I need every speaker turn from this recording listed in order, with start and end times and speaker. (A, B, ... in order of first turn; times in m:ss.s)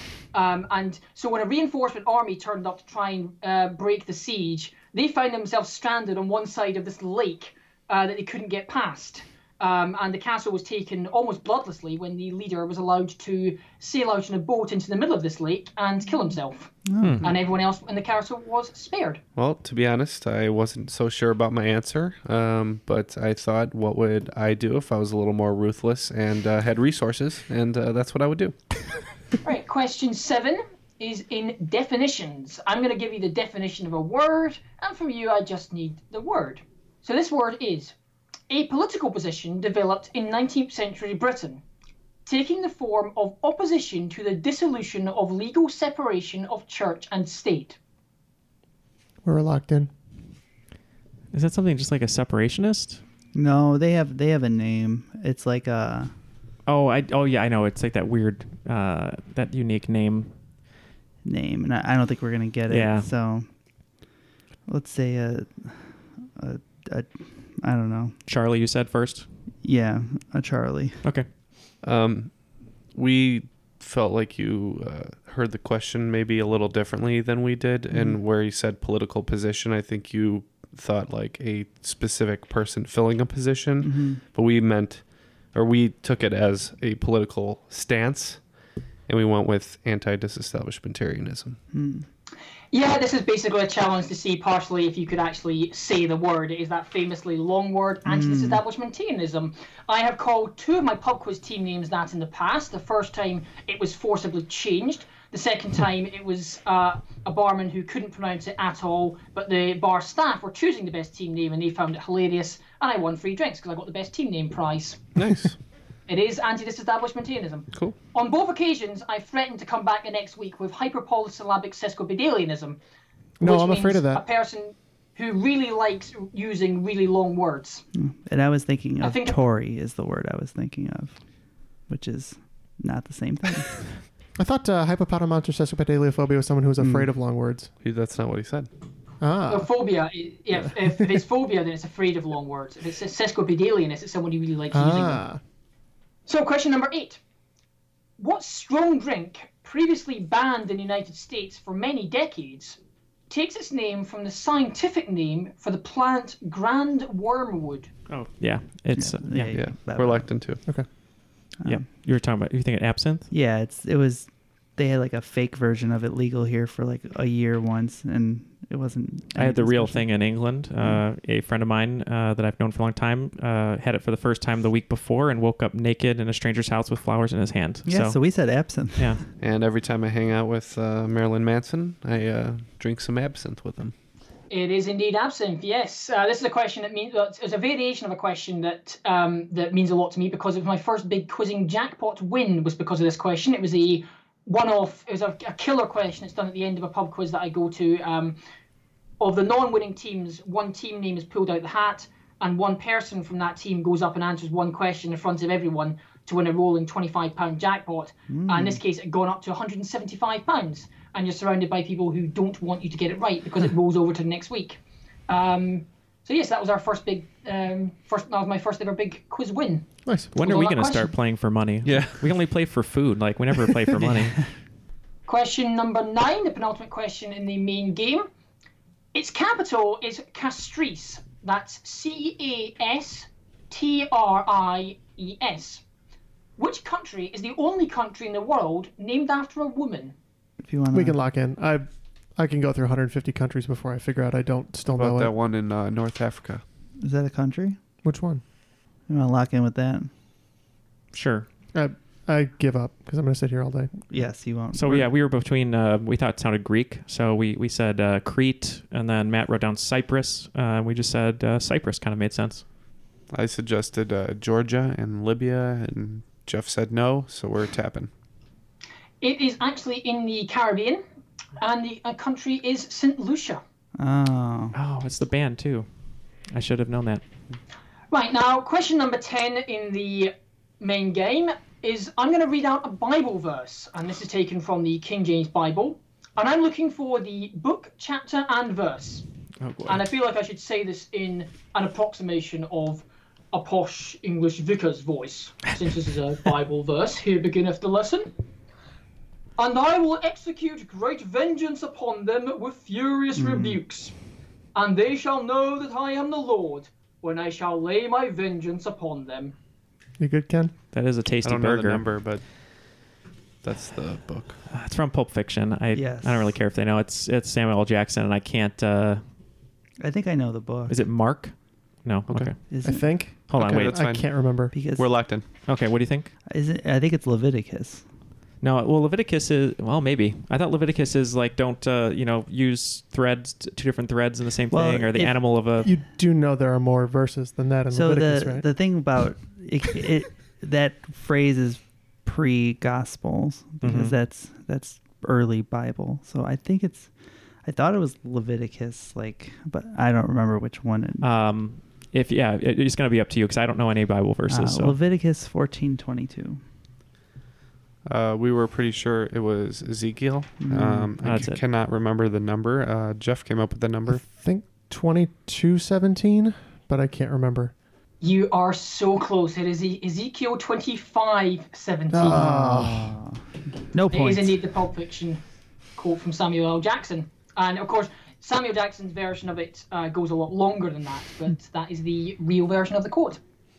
0:00.3-0:19.2 A
0:16.8-0:17.2 B
0:19.4-0:28.6 C
0:29.4-0:37.9 A
0:38.5-0:41.6 A
0:42.2-0:47.8 A
0:49.2-0:49.9 D
0:51.3-0:53.0 E
0:53.3-0:56.1 B
0:56.6-1:00.3 E
1:01.2-1:03.5 B
1:02.7-1:03.1 E
1:04.6-1:08.2 B
1:08.2-1:09.3 E
1:09.6-1:11.1 B
1:11.8-1:28.5 C
1:17.9-1:18.2 B
1:23.8-1:24.2 B
1:29.1-1:31.6 C
1:31.7-1:32.1 B
1:32.7-1:55.0 A
1:38.0-1:38.6 B
1:55.2-1:55.6 C
1:56.1-2:02.8 A
2:03.4-2:04.2 D
2:03.4-2:07.8 A
2:07.9-2:11.2 B
2:09.0-2:09.4 A
2:11.8-2:14.0 B
2:14.4-2:17.7 D
2:16.8-2:17.1 B
2:17.8-2:18.7 C
2:19.2-2:20.0 D
2:19.5-2:25.2 A
2:20.6-2:21.1 D
2:24.7-2:25.4 D
2:26.2-2:27.2 A
2:28.2-2:32.8 A
2:33.3-2:37.9 A
2:38.1-2:39.6 E
2:38.9-2:40.6 B
2:39.5-2:40.6 C
2:41.6-2:41.8 B
2:41.6-2:43.3 E
2:43.3-2:51.0 B
2:49.4-2:59.2 E
2:57.8-2:59.2 B
2:59.4-3:03.9 C
3:04.5-3:18.4 A
3:19.2-3:41.1 A
3:28.3-3:28.8 B
3:40.3-3:44.5 E
3:41.8-3:42.2 C
3:44.0-3:44.3 B
3:45.3-3:48.3 A
3:49.1-3:55.8 A
3:56.6-4:00.1 A
4:00.6-4:01.2 B
4:00.9-4:05.3 D
4:04.9-4:06.6 C
4:07.0-4:07.8 B
4:08.0-4:08.4 D
4:09.1-4:10.1 B
4:11.1-4:11.5 E
4:11.7-4:13.9 D
4:14.1-4:15.1 B
4:14.2-4:22.6 E
4:23.3-4:28.1 C
4:29.2-4:31.0 A
4:31.6-4:33.6 A
4:34.0-4:34.8 B
4:34.7-4:35.9 E
4:36.4-4:37.2 E
4:38.1-4:49.2 A
4:49.6-4:50.0 E
4:49.8-4:58.3 A
4:59.6-5:04.1 A
5:03.3-5:03.8 B
5:04.7-5:09.5 A
5:10.2-5:10.7 D
5:10.9-5:12.1 E
5:11.4-5:13.1 C
5:13.6-5:14.6 C
5:14.7-5:19.2 E
5:15.9-5:16.6 B
5:20.0-5:21.0 B
5:20.9-5:22.9 E
5:22.3-5:22.5 C
5:22.7-5:23.2 B
5:22.8-5:24.9 D
5:23.5-5:24.2 E
5:23.5-5:25.4 C
5:24.7-5:25.3 B
5:25.6-5:26.3 E
5:26.5-5:28.0 B
5:28.6-5:35.9 E
5:34.7-5:35.8 B
5:35.8-5:38.7 D
5:37.9-5:51.3 B
5:43.8-5:44.2 E
5:51.2-5:55.0 E
5:54.5-5:56.6 B
5:58.0-6:04.3 C
6:00.6-6:01.1 B
6:01.2-6:01.6 E
6:04.1-6:07.8 D
6:08.2-6:12.4 A
6:12.1-6:13.2 D
6:12.2-6:14.6 B
6:14.1-6:15.4 A
6:16.0-6:23.4 A